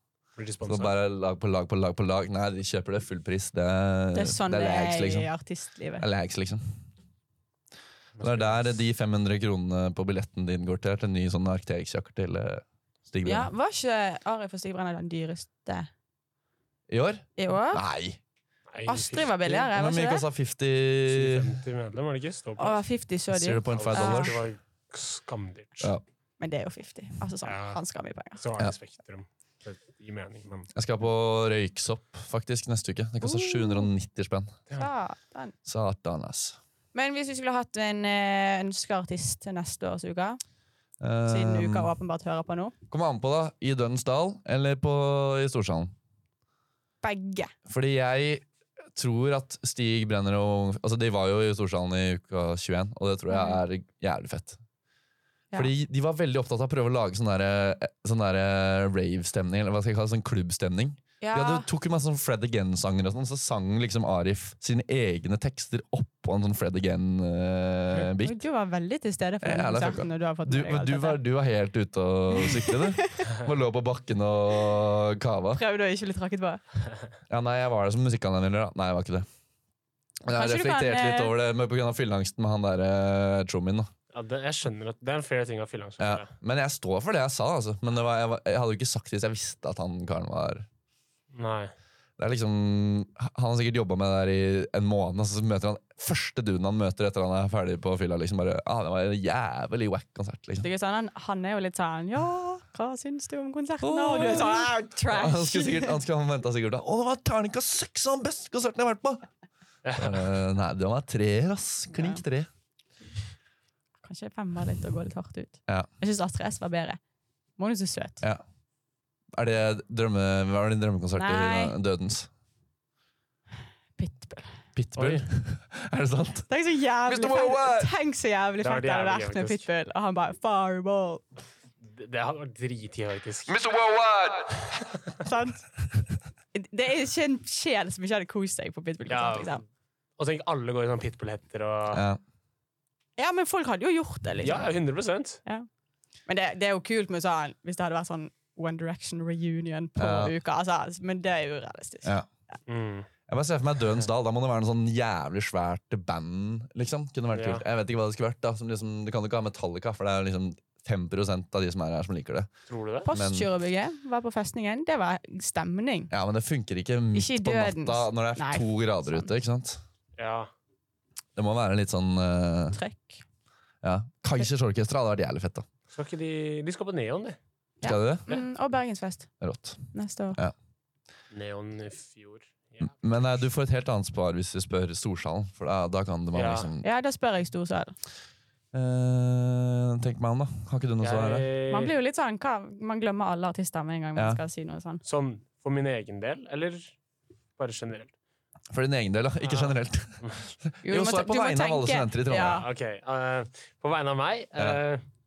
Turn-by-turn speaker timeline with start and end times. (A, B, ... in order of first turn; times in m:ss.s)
0:00.4-0:00.9 A
0:00.6-0:05.3 B
0:04.1-0:06.0 C
0:06.0-0:06.8 B
0:08.2-0:08.7 A
0:08.2-0:13.5 B
0:13.2-0:15.9 C
0:16.9-0:18.2 B
0:17.4-0:17.8 C
0:18.7-0:19.5 A
0:18.8-0:20.2 C
0:19.5-0:21.5 B
0:21.1-0:22.8 A
0:22.6-0:24.3 C
0:23.3-0:24.5 B
0:23.7-0:25.9 A
0:26.4-0:28.4 C
0:27.4-0:27.8 A
0:28.4-0:30.7 A
0:30.7-0:34.6 B
0:33.2-0:33.9 C
0:34.7-0:35.5 C
0:35.6-0:36.6 B
0:36.9-0:40.4 C
0:41.0-0:41.9 B
0:41.3-0:42.7 C
0:42.9-0:45.9 B
0:47.0-0:47.5 C
0:47.7-0:48.4 B
0:48.9-0:54.6 B
0:53.3-0:53.6 C
0:55.5-1:08.4 B
1:01.2-1:01.7 C
1:08.2-1:11.2 C
1:09.4-1:15.6 B
1:12.4-1:13.2 C
1:15.5-1:16.6 C
1:17.3-1:19.3 B
1:20.2-1:23.9 B
1:20.3-1:21.3 C
1:24.1-1:26.3 A
1:26.0-1:30.6 B
1:31.3-1:31.7 A
1:32.2-1:40.7 B
1:40.6-1:46.0 C
1:43.8-1:49.3 B
1:49.8-1:50.2 A
1:50.0-1:52.5 B
1:51.9-1:52.2 C
1:54.0-1:57.0 C
1:57.6-1:58.2 C
1:59.3-2:02.3 B
2:01.2-2:01.7 C
2:04.0-2:04.5 C
2:04.8-2:06.5 B
2:05.0-2:05.2 A
2:06.5-2:11.2 C
2:07.0-2:07.9 B
2:08.6-2:09.6 A
2:11.8-2:13.6 A
2:13.5-2:14.7 B
2:15.2-2:15.6 C
2:16.5-2:19.6 C
2:19.1-2:19.6 A
2:20.2-2:22.0 A
2:21.9-2:22.2 B
2:23.2-2:24.7 C
2:24.4-2:25.4 A
2:26.2-2:32.1 C
2:30.0-2:30.3 B
2:32.7-2:33.1 A
2:33.3-2:42.5 B
2:37.3-2:37.6 A
2:42.7-2:43.1 A
2:43.0-2:46.1 C
2:43.1-2:43.5 B
2:46.1-2:49.8 B
2:47.1-2:49.3 C
2:50.2-2:50.5 A
2:51.4-2:52.8 B
2:52.7-2:53.2 C
2:53.8-2:55.6 B
2:55.9-2:57.4 A
2:57.8-2:58.3 B
2:57.8-2:59.3 C
2:59.4-3:00.5 B
2:59.9-3:00.4 C
3:01.3-3:03.0 A
3:03.0-3:06.8 B
3:06.3-3:06.7 A
3:06.8-3:07.9 C
3:08.7-3:11.5 B
3:11.0-3:11.9 A
3:11.7-3:15.0 C
3:14.2-3:14.4 B
3:15.0-3:17.0 A
3:17.6-3:18.1 A
3:18.7-3:22.6 B
3:19.4-3:20.4 A
3:20.8-3:22.6 C
3:22.4-3:25.0 A